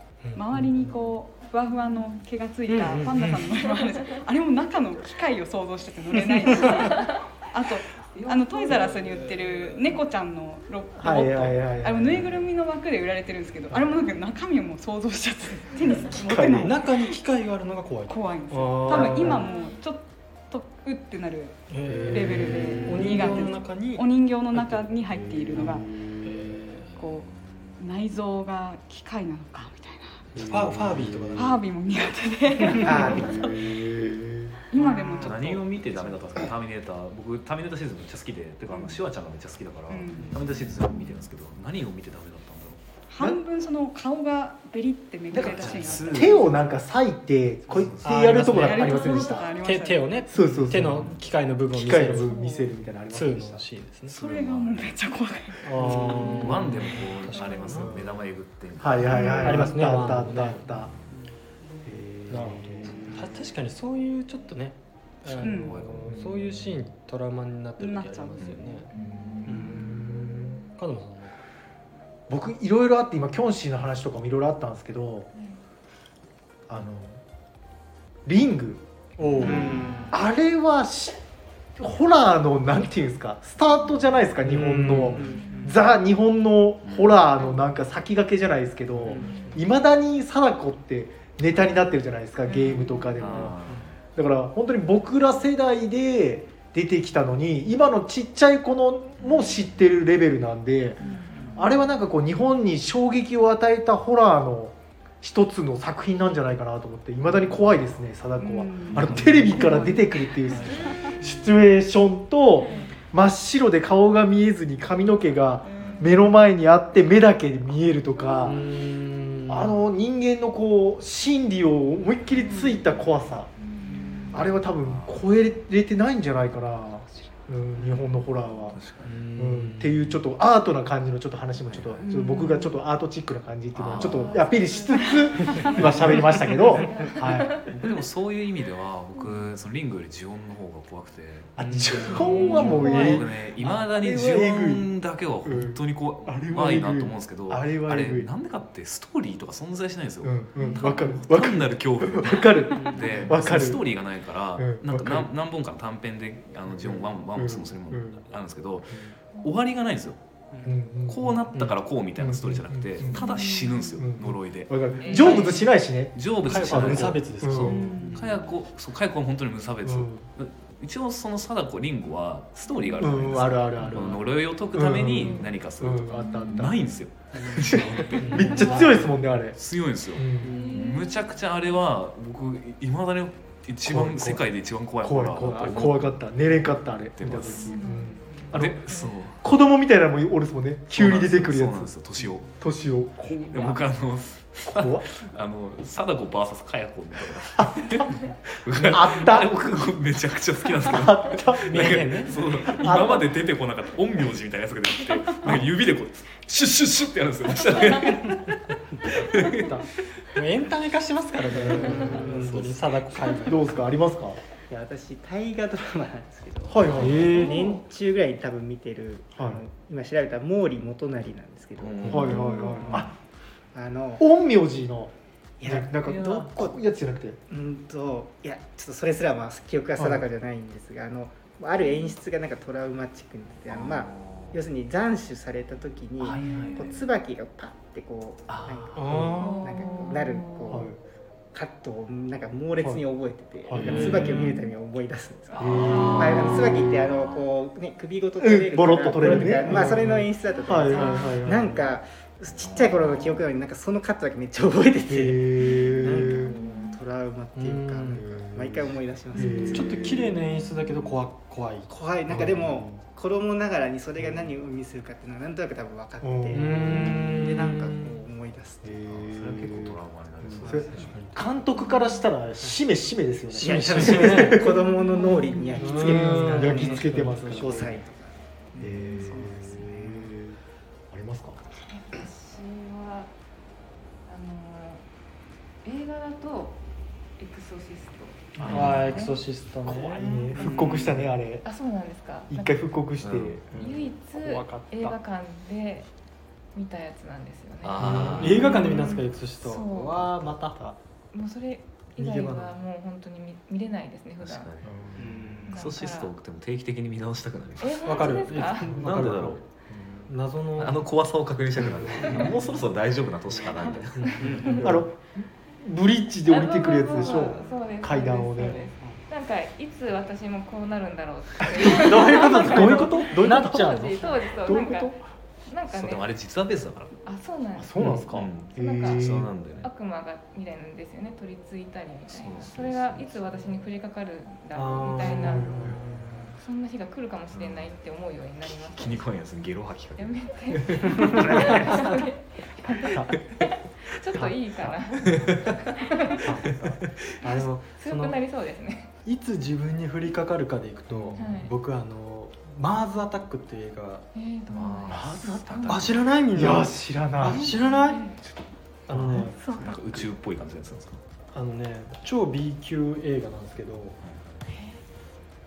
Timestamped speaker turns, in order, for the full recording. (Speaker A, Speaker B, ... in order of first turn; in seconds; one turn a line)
Speaker A: 0.2-0.7
Speaker B: 0.3-17.2
Speaker C: 1.6-2.2
Speaker A: 2.8-3.4
Speaker C: 3.3-4.2
Speaker C: 6.5-7.2
Speaker C: 8.2-10.0
Speaker D: 11.0-12.5
Speaker D: 13.7-14.0
Speaker D: 16.1-16.8
Speaker A: 16.5-19.5
Speaker B: 18.1-25.9
Speaker D: 18.9-19.4
Speaker C: 19.3-19.8
Speaker A: 21.7-25.7
Speaker D: 21.9-23.5
Speaker D: 25.1-26.5
Speaker A: 26.2-26.9
Speaker B: 26.9-30.3
Speaker E: 27.2-27.8
Speaker A: 30.3-31.6
Speaker D: 30.4-31.5
Speaker B: 31.4-33.6
Speaker D: 32.8-34.6
Speaker F: 32.8-33.5
Speaker B: 34.7-35.7
Speaker A: 34.8-35.3
Speaker E: 35.1-42.8
Speaker B: 38.7-39.0
Speaker B: 39.9-40.5
Speaker B: 43.1-46.6
Speaker D: 45.3-49.5
Speaker E: 45.5-46.7
Speaker A: 45.6-46.1
Speaker E: 47.7-48.6
Speaker A: 48.0-52.4
Speaker B: 48.5-50.3
Speaker D: 50.3-51.1
Speaker E: 50.9-51.2
Speaker D: 51.7-53.6
Speaker B: 52.1-52.7
Speaker A: 53.1-54.2
Speaker E: 54.1-55.0
Speaker B: 54.1-56.6
Speaker A: 55.6-57.9
Speaker E: 55.8-60.1
Speaker D: 55.8-56.3
Speaker D: 57.7-58.1
Speaker D: 58.8-60.9
Speaker B: 59.1-59.6
Speaker A: 59.4-60.7
Speaker D: 61.8-63.3
Speaker A: 62.3-68.9
Speaker E: 65.2-66.4
Speaker B: 65.4-65.8
Speaker B: 67.8-68.8
Speaker C: 68.9-70.6
Speaker D: 69.0-70.4
Speaker F: 69.5-69.8
Speaker A: 70.7-71.4
Speaker D: 72.3-75.3
Speaker C: 75.3-75.6
Speaker D: 76.7-77.2
Speaker D: 78.3-78.8
Speaker A: 79.2-79.9
Speaker D: 79.4-81.2
Speaker F: 79.4-80.2
Speaker D: 81.8-93.6
Speaker A: 84.4-85.2
Speaker F: 85.1-85.8
Speaker C: 85.2-85.8
Speaker E: 86.8-87.2
Speaker A: 89.0-89.4
Speaker F: 89.1-89.4
Speaker C: 89.2-89.6
Speaker C: 92.5-93.0
Speaker B: 92.7-93.1
Speaker E: 93.2-94.0
Speaker D: 94.2-101.0
Speaker E: 99.2-99.7
Speaker C: 101.0-101.6
Speaker B: 101.0-101.3
Speaker D: 101.5-118.6
Speaker B: 108.4-111.2
Speaker E: 109.0-109.3
Speaker E: 110.5-111.1
Speaker C: 112.6-112.9
Speaker E: 115.3-116.1
Speaker B: 115.6-116.1
Speaker C: 118.3-118.5
Speaker A: 118.4-119.8
Speaker D: 119.5-123.5
Speaker B: 122.5-122.8
Speaker C: 123.6-124.5
Speaker E: 124.0-125.3
Speaker D: 124.3-128.8
Speaker C: 127.0-127.4
Speaker E: 128.7-129.3
Speaker A: 129.0-130.2
Speaker D: 129.4-137.6
Speaker E: 131.6-132.1
Speaker B: 132.0-132.7
Speaker E: 133.8-134.4
Speaker C: 134.0-137.9
Speaker E: 135.5-136.0
Speaker E: 137.7-160.2
Speaker C: 139.2-139.5
Speaker D: 141.6-144.9
Speaker C: 142.1-143.2
Speaker B: 142.4-142.9
Speaker D: 145.4-148.3
Speaker D: 150.2-153.9
Speaker C: 150.6-151.0
Speaker A: 153.0-153.3
Speaker D: 154.6-155.3
Speaker D: 156.7-158.2
Speaker D: 160.6-163.3
Speaker E: 161.1-186.2
Speaker C: 163.1-164.0
Speaker B: 163.2-163.7
Speaker D: 164.0-168.2
Speaker C: 165.0-165.7
Speaker A: 166.5-167.8
Speaker B: 167.7-168.3
Speaker D: 169.8-170.3
Speaker C: 172.8-173.1
Speaker D: 173.0-176.8
Speaker C: 175.0-175.5
Speaker C: 176.1-176.9
Speaker D: 177.6-179.6
Speaker A: 178.2-179.0
Speaker D: 180.2-180.7
Speaker C: 180.4-181.7
Speaker D: 183.8-184.4
Speaker D: 185.0-191.9
Speaker E: 187.0-187.8
Speaker C: 187.5-189.1
Speaker E: 188.5-189.4
Speaker E: 190.9-192.6
Speaker D: 192.6-193.8
Speaker E: 193.3-209.8
Speaker D: 194.7-195.1
Speaker D: 197.6-198.1
Speaker D: 198.7-199.5
Speaker D: 200.9-201.9
Speaker A: 201.6-202.4
Speaker D: 202.7-203.3
Speaker A: 209.4-213.8
Speaker D: 211.5-212.8
Speaker F: 211.9-212.7
Speaker D: 213.4-214.4
Speaker F: 214.7-223.1
Speaker D: 216.7-217.6
Speaker A: 217.0-217.8
Speaker D: 219.4-219.6
Speaker E: 221.8-222.5
Speaker D: 222.0-223.1
Speaker C: 222.2-223.0
Speaker F: 223.7-224.2
Speaker D: 224.2-225.1
Speaker F: 225.6-226.8
Speaker D: 225.7-227.4
Speaker E: 226.2-226.5
Speaker F: 227.5-240.9
Speaker D: 230.0-230.3
Speaker C: 231.8-232.2
Speaker E: 233.7-234.6
Speaker E: 236.2-237.1
Speaker E: 238.5-239.0
Speaker A: 238.9-239.7
Speaker C: 239.4-240.7
Speaker E: 240.1-240.4
Speaker D: 240.7-241.0
Speaker F: 241.5-260.2
Speaker D: 243.7-244.1
Speaker E: 243.8-244.6
Speaker C: 244.2-244.7
Speaker E: 245.5-247.5
Speaker D: 245.6-246.4
Speaker D: 248.4-251.9
Speaker C: 249.3-249.6
Speaker C: 250.5-251.4
Speaker E: 252.5-253.5
Speaker D: 255.1-256.6
Speaker C: 255.7-257.0
Speaker A: 257.6-258.2
Speaker D: 258.1-260.3
Speaker C: 259.4-259.8
Speaker A: 259.7-261.9
Speaker F: 261.9-269.0
Speaker D: 262.3-263.0
Speaker D: 264.2-264.5
Speaker D: 266.2-267.3
Speaker A: 266.5-268.2
Speaker D: 268.8-274.7
Speaker E: 269.1-271.3
Speaker A: 270.6-271.4
Speaker F: 270.7-271.0
Speaker C: 271.8-272.2
Speaker F: 273.5-280.4
Speaker A: 273.6-274.6
Speaker C: 274.6-276.3
Speaker A: 275.8-278.0
Speaker D: 276.0-277.9
Speaker D: 278.8-280.6
Speaker D: 281.1-281.6
Speaker C: 281.9-283.3
Speaker C: 284.3-285.0
Speaker C: 285.8-286.8
Speaker C: 287.4-289.4
Speaker D: 288.6-289.0
Speaker E: 288.6-289.2
Speaker A: 288.7-290.2
Speaker D: 289.9-291.7
Speaker C: 290.2-292.9
Speaker F: 290.6-290.9
Speaker D: 292.5-295.1
Speaker E: 293.2-293.8
Speaker A: 293.8-294.0
Speaker C: 293.8-296.1
Speaker C: 296.7-300.3
Speaker E: 297.8-298.9
Speaker D: 298.0-298.4
Speaker A: 298.0-300.8
Speaker D: 300.6-301.0
Speaker C: 301.3-304.7
Speaker A: 302.2-302.8
Speaker E: 304.4-304.9
Speaker D: 304.8-305.6
Speaker F: 305.2-305.7
Speaker E: 305.7-314.3
Speaker C: 305.7-306.3
Speaker C: 307.8-309.0
Speaker A: 308.0-309.6
Speaker A: 310.3-311.0
Speaker D: 311.9-312.5
Speaker C: 312.2-312.5
Speaker C: 313.7-314.9
Speaker A: 314.2-315.0
Speaker F: 314.4-314.9
Speaker D: 314.8-318.9
Speaker C: 316.5-326.4
Speaker A: 321.8-324.4
Speaker D: 322.5-324.0
Speaker D: 324.6-325.2
Speaker E: 325.9-327.2
Speaker C: 327.3-328.1
Speaker D: 327.8-329.5
Speaker E: 328.0-329.9
Speaker C: 328.6-329.3
Speaker C: 329.8-335.7
Speaker E: 332.3-333.8
Speaker A: 334.7-336.5
Speaker D: 335.2-336.2
Speaker C: 336.6-339.4
Speaker E: 337.5-338.0
Speaker E: 338.6-342.1
Speaker C: 340.2-346.5
Speaker D: 344.3-345.7
Speaker E: 345.2-345.8
Speaker D: 346.4-347.0
Speaker E: 346.5-347.4
Speaker A: 347.4-348.4
Speaker C: 347.4-349.1
Speaker A: 349.2-354.3
Speaker D: 351.1-351.4
Speaker C: 351.4-351.7
Speaker C: 354.3-356.1
Speaker E: 354.7-356.2
Speaker D: 355.1-357.7
Speaker A: 355.9-358.2
Speaker C: 357.4-358.4
Speaker E: 358.4-361.2
Speaker D: 359.1-359.6
Speaker A: 359.1-359.6
Speaker A: 361.5-364.2
Speaker E: 364.2-364.6
Speaker C: 364.7-365.0